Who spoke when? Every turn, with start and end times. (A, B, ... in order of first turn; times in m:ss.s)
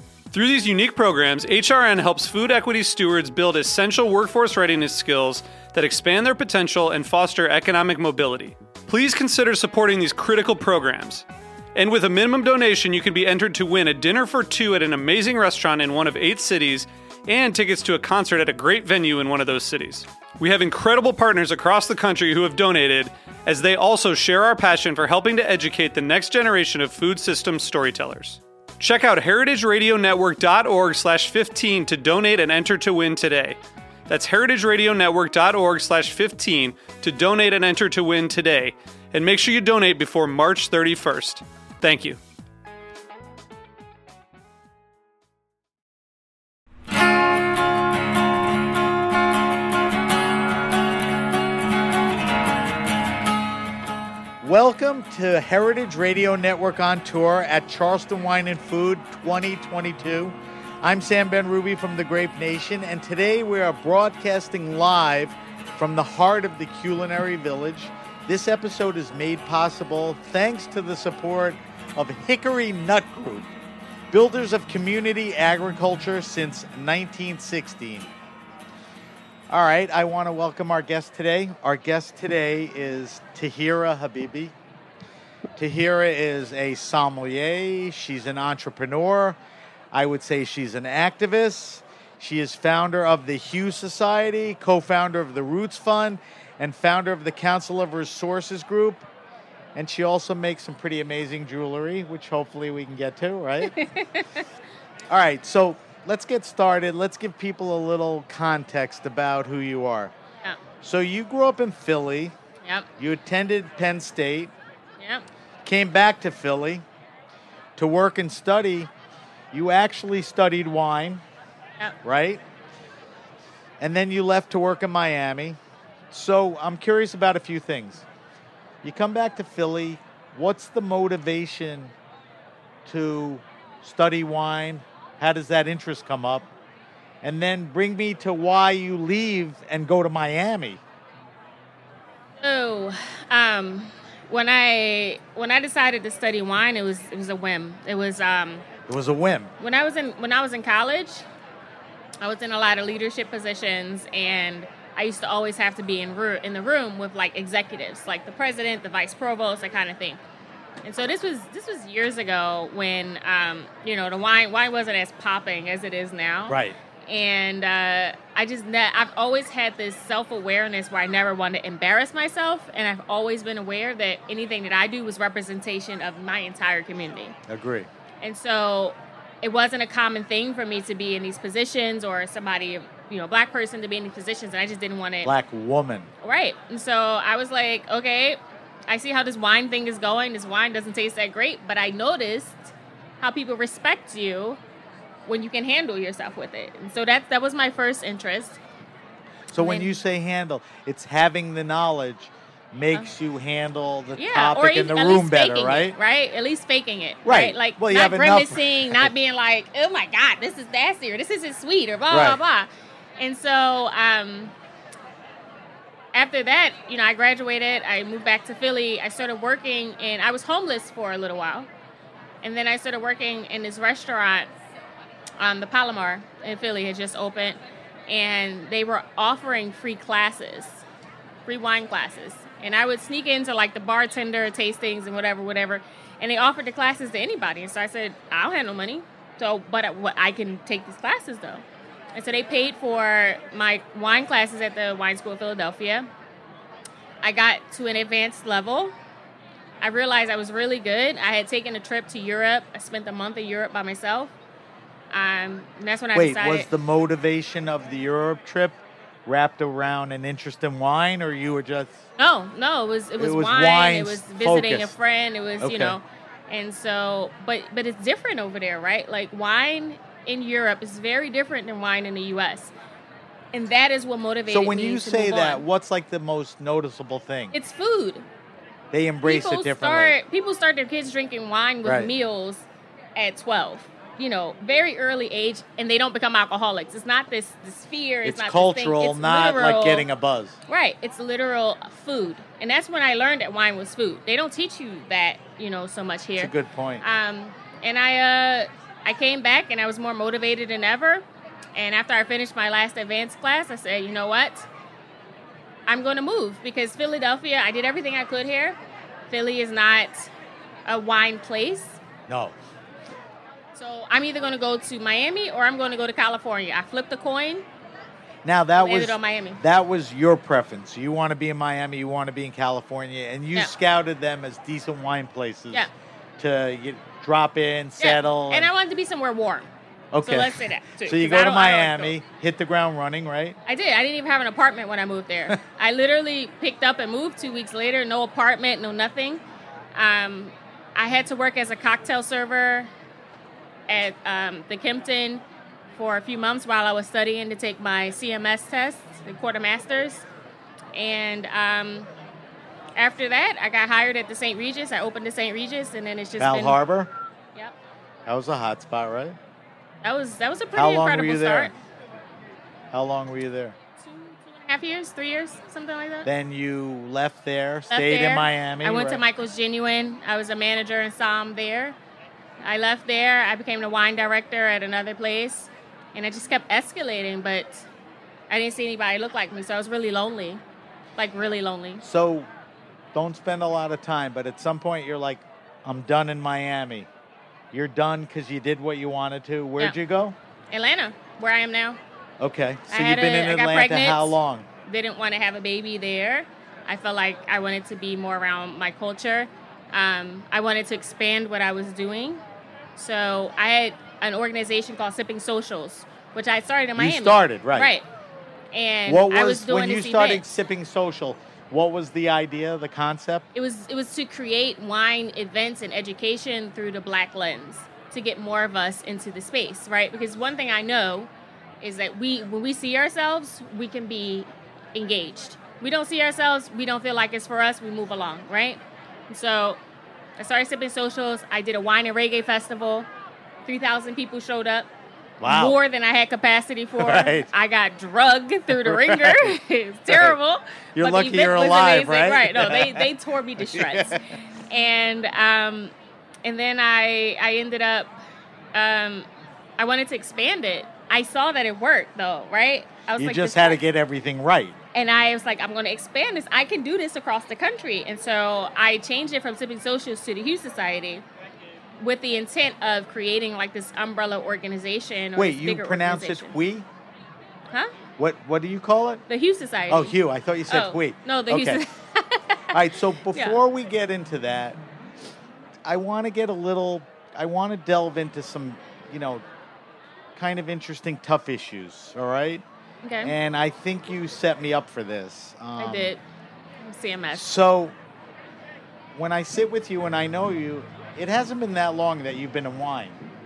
0:00.3-0:33.6 A
0:34.1-0:42.2 A
0:54.4-1:13.5 B
1:14.1-1:18.1 B
1:19.5-1:24.5 B
1:25.6-1:29.4 B
1:29.9-1:39.0 B
1:39.7-1:43.8 B
1:43.6-1:44.5 C
1:45.1-1:50.1 B
1:50.8-1:52.3 B
1:53.0-1:54.5 B
1:55.0-1:55.2 C
1:55.6-1:56.8 B
1:57.8-1:58.9 B
1:59.5-2:01.2 B
2:02.0-2:02.4 B
2:03.8-2:05.6 B
2:06.1-2:08.0 B
2:08.8-2:11.9 B
2:12.8-2:16.5 B
2:17.2-2:20.8 B
2:22.4-2:28.6 C
2:28.9-2:29.5 B
2:29.6-2:31.2 C
2:32.2-2:40.2 C
2:40.8-2:57.4 C
2:46.5-2:46.8 B
2:57.5-2:57.9 B
2:58.2-3:05.3 C
3:05.2-3:06.1 B
3:06.2-3:14.6 C
3:15.2-3:18.6 C
3:19.5-3:26.0 B
3:19.6-3:19.9 C
3:24.2-3:34.5 C
3:27.2-3:29.1 B
3:32.1-3:32.4 B
3:36.1-3:41.7 C
3:42.4-3:44.5 C
3:45.4-3:50.8 C
3:51.4-4:06.1 C
4:07.2-4:08.9 C
4:09.8-4:14.3 C
4:15.1-4:16.7 C
4:16.1-4:22.0 B
4:22.2-4:32.7 C
4:23.2-4:24.9 B
4:25.6-4:26.0 B
4:33.5-4:35.6 C
4:34.5-4:37.5 B
4:37.5-4:38.2 C
4:38.9-4:40.2 B
4:39.2-4:50.1 C
4:41.8-4:42.1 B
4:48.2-4:50.6 B
4:50.7-5:04.7 C
4:56.4-4:57.0 B
5:05.9-5:08.8 C
5:09.3-5:10.3 C
5:10.9-5:12.0 C
5:12.3-5:12.5 B
5:13.7-5:17.6 C
5:18.4-5:28.7 B
5:18.8-5:19.6 C
5:28.0-5:29.7 C
5:30.1-5:33.6 B
5:30.2-5:32.2 C
5:33.6-5:39.4 C
5:39.9-5:42.9 C
5:43.9-5:45.4 C
5:45.9-5:50.2 C
5:50.9-5:52.1 C
5:53.0-5:56.8 C
5:56.4-5:57.1 B
5:58.2-5:59.4 B
6:00.0-6:01.7 C
6:00.7-6:01.7 B
6:02.9-6:03.7 B
6:04.0-6:06.3 C
6:06.2-6:09.2 B
6:07.9-6:12.0 C
6:12.6-6:17.9 C
6:18.5-6:20.6 C
6:21.2-6:22.0 C
6:22.0-6:22.5 B
6:23.1-6:27.1 B
6:27.7-6:30.4 B
6:30.7-6:32.0 C
6:32.4-6:34.7 B
6:32.9-6:42.4 C
6:43.0-6:48.0 C
6:47.0-6:47.9 B
6:48.7-6:50.4 C
6:49.0-6:53.4 B
6:53.5-7:01.3 C
7:01.8-7:09.8 C
7:10.4-7:13.1 C
7:13.6-7:14.9 C
7:15.4-7:15.8 B
7:15.4-7:25.9 C
7:17.0-7:17.5 B
7:18.7-7:19.5 B
7:20.1-7:20.4 B
7:20.9-7:23.1 B
7:23.7-7:24.3 B
7:26.4-7:28.1 C
7:28.7-7:29.3 C
7:29.8-7:33.8 C
7:33.2-7:34.8 B
7:34.9-7:41.2 C
7:42.0-7:46.6 C
7:45.4-7:46.8 B
7:48.2-7:49.2 B
7:49.3-7:50.2 C
7:49.9-7:51.8 B
7:50.7-7:52.8 C
7:52.7-7:54.8 B
7:53.3-7:53.6 C
7:55.8-7:59.4 B
8:00.4-8:02.6 B
8:03.0-8:03.3 C
8:03.2-8:06.1 B
8:05.8-8:06.2 C
8:06.8-8:07.5 C
8:07.3-8:07.9 B
8:09.1-8:13.2 B